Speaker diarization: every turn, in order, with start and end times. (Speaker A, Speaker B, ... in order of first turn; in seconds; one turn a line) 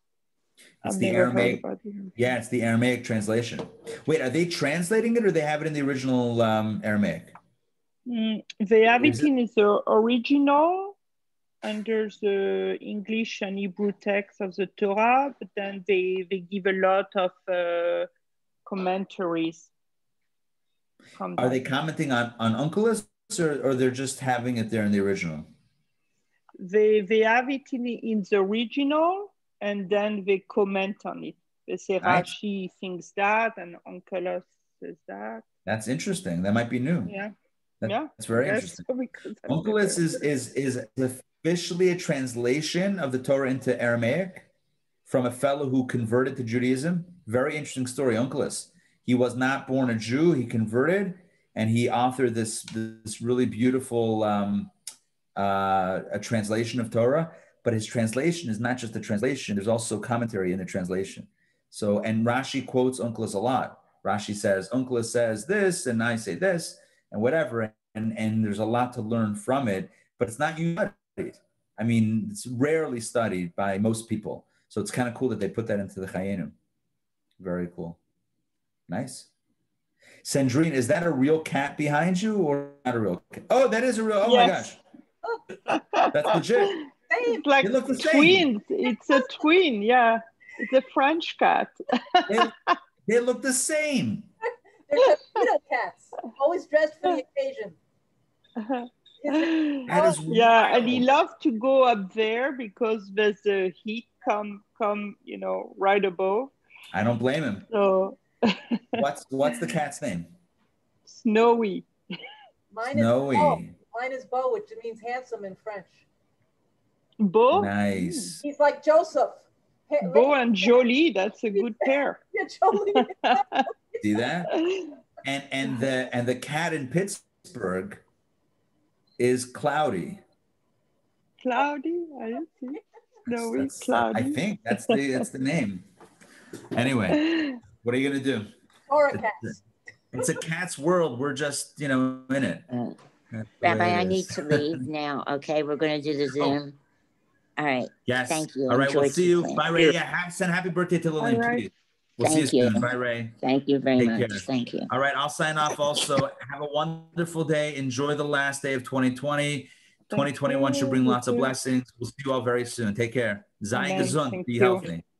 Speaker A: 0.8-1.6
Speaker B: 0.8-2.1
Speaker A: 2.1-7.3
Speaker B: 8.1-11.0
Speaker A: 9.0-9.3
Speaker B: 11.6-18.1
Speaker B: 18.6-19.7
Speaker B: 21.2-21.6
Speaker A: 21.4-25.5
Speaker B: 26.6-35.4
Speaker A: 32.0-32.3
Speaker A: 35.6-37.1
Speaker B: 37.0-37.3
Speaker A: 37.8-38.8
Speaker B: 37.8-40.2
Speaker A: 39.5-44.5
Speaker A: 45.0-54.7
Speaker A: 55.4-76.5
Speaker A: 77.4-78.0
Speaker A: 78.9-79.3
Speaker A: 80.2-84.8
Speaker B: 84.2-84.7
Speaker B: 85.7-92.7
Speaker A: 86.1-86.8
Speaker C: 87.1-87.4
Speaker A: 87.6-88.5
Speaker C: 88.9-89.4
Speaker A: 92.3-92.5
Speaker A: 93.0-94.3
Speaker C: 94.9-97.8
Speaker B: 98.6-106.5
Speaker C: 99.2-101.0
Speaker A: 99.8-101.0
Speaker A: 106.9-107.7
Speaker B: 107.7-109.0
Speaker A: 108.9-110.3
Speaker B: 111.0-111.9
Speaker C: 112.7-116.0
Speaker A: 112.9-113.8
Speaker B: 117.2-118.4
Speaker A: 117.5-118.4
Speaker C: 118.4-120.8
Speaker B: 120.0-122.2
Speaker C: 121.5-124.1
Speaker B: 122.7-123.7
Speaker A: 124.0-124.5
Speaker B: 124.5-125.0
Speaker A: 125.2-128.0
Speaker A: 129.2-130.2
Speaker B: 131.4-135.0
Speaker A: 133.3-135.9
Speaker A: 136.7-137.3
Speaker B: 137.1-137.6
Speaker A: 137.8-138.5
Speaker C: 138.9-139.5
Speaker A: 139.1-139.6
Speaker A: 140.1-142.7
Speaker D: 142.7-143.0
Speaker A: 143.3-144.8
Speaker D: 143.6-146.8
Speaker D: 147.6-149.7
Speaker A: 148.1-153.3
Speaker B: 151.2-151.7
Speaker D: 152.2-154.9
Speaker A: 153.9-165.0
Speaker B: 160.1-161.5
Speaker B: 163.7-164.8